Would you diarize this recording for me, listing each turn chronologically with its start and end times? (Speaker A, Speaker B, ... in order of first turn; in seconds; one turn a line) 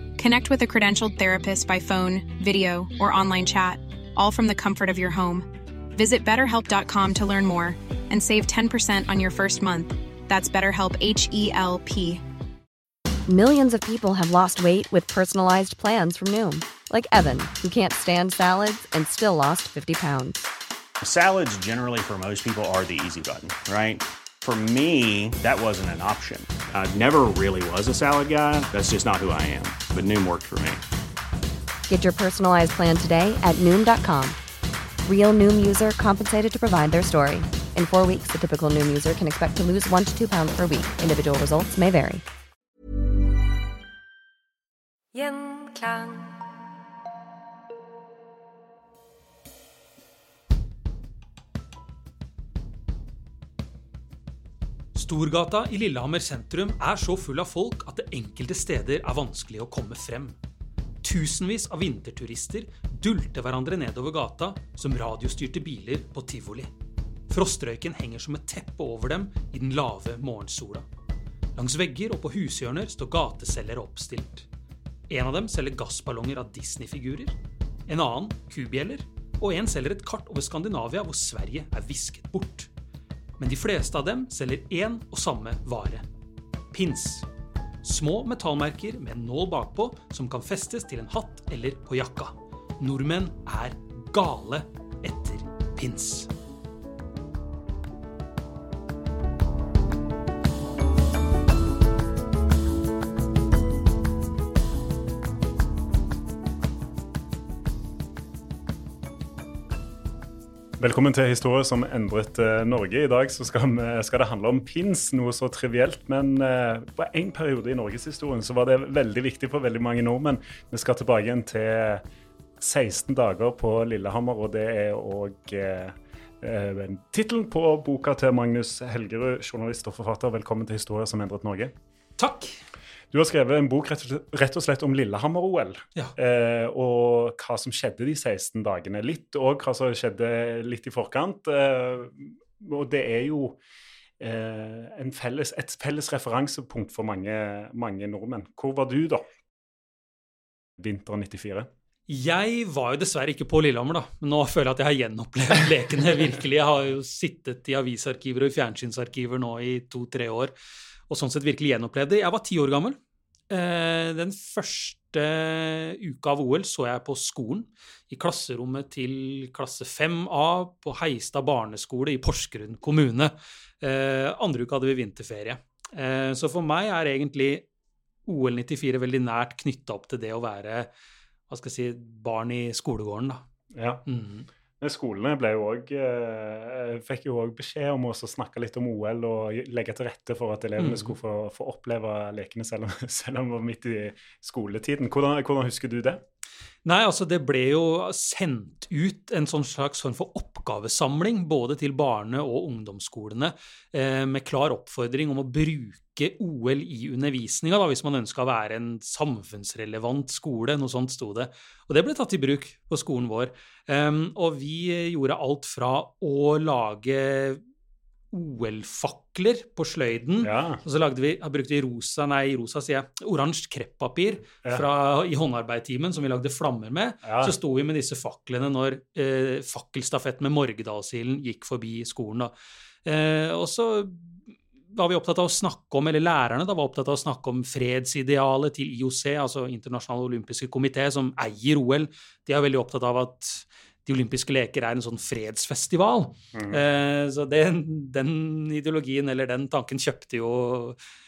Speaker A: 0.2-12.2
Speaker B: 13.3-20.4
Speaker C: 21.0-30.8
Speaker B: 31.9-34.4
Speaker B: 35.0-42.2
Speaker B: 45.1-46.4
Speaker D: 54.9-60.3
Speaker D: 61.0-66.7
Speaker D: 67.3-70.8
Speaker D: 71.6-74.5
Speaker D: 75.1-82.7
Speaker D: 83.4-86.0
Speaker D: 86.7-87.3
Speaker D: 87.8-96.3
Speaker E: 110.8-122.0
Speaker E: 122.6-131.8
Speaker D: 132.2-132.6
Speaker E: 133.1-143.6
Speaker E: 144.2-149.2
Speaker E: 150.8-151.7
Speaker D: 152.1-160.5
Speaker D: 161.1-163.0
Speaker D: 163.5-177.7
Speaker D: 178.3-180.9
Speaker D: 181.5-183.4
Speaker E: 183.7-184.0
Speaker D: 184.1-184.5
Speaker E: 184.8-196.2
Speaker D: 190.8-191.1
Speaker D: 196.8-217.6
Speaker D: 218.3-232.5
Speaker E: 220.4-220.8
Speaker E: 227.2-227.6
Speaker D: 233.1-234.4
Speaker D: 234.9-251.0
Speaker E: 246.5-246.8